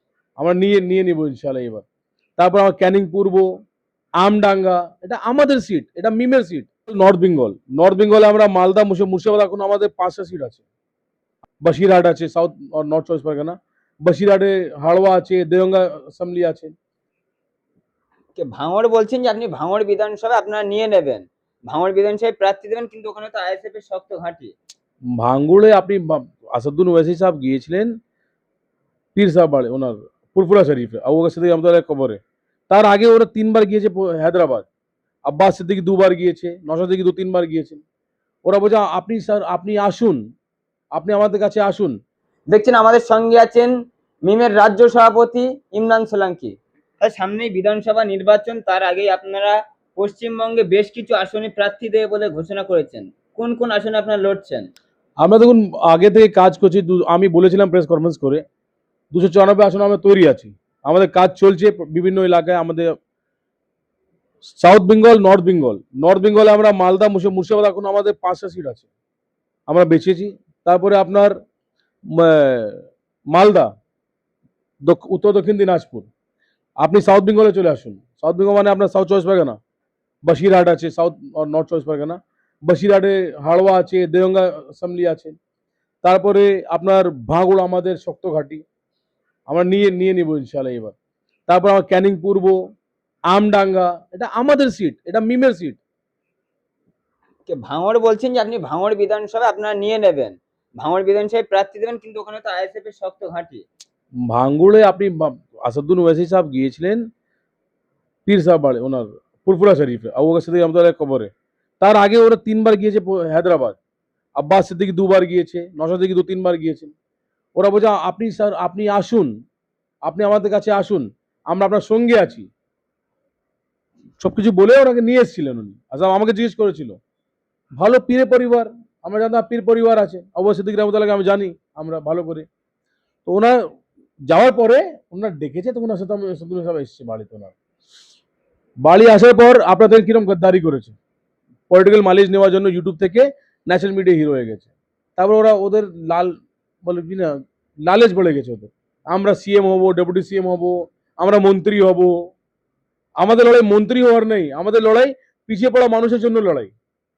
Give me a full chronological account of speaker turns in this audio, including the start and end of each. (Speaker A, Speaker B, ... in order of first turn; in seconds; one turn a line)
Speaker A: 0.4-1.8
Speaker A: 2.4-3.5
Speaker A: 4.2-10.6
Speaker A: 11.6-16.7
Speaker B: 18.4-24.5
Speaker A: 25.2-27.9
Speaker A: 29.1-34.6
Speaker A: 35.3-37.8
Speaker A: 38.4-40.2
Speaker A: 40.9-42.0
Speaker B: 42.5-43.7
Speaker B: 44.2-54.7
Speaker A: 55.2-58.4
Speaker A: 59.1-62.9
Speaker A: 64.6-68.9
Speaker A: 69.7-71.3
Speaker A: 72.1-73.7
Speaker A: 74.8-76.1
Speaker A: 76.8-79.6
Speaker A: 80.2-85.4
Speaker A: 86.0-88.6
Speaker A: 89.5-90.9
Speaker A: 91.5-92.6
Speaker A: 93.3-95.8
Speaker B: 97.5-103.6
Speaker A: 104.3-107.0
Speaker A: 108.2-113.8
Speaker A: 114.4-116.9
Speaker A: 117.5-119.3
Speaker A: 120.0-122.5
Speaker A: 124.2-127.0
Speaker A: 127.8-132.4
Speaker A: 133.2-133.6
Speaker A: 134.3-137.5
Speaker A: 138.8-140.9
Speaker A: 141.7-147.3
Speaker A: 147.8-152.1
Speaker A: 153.2-156.7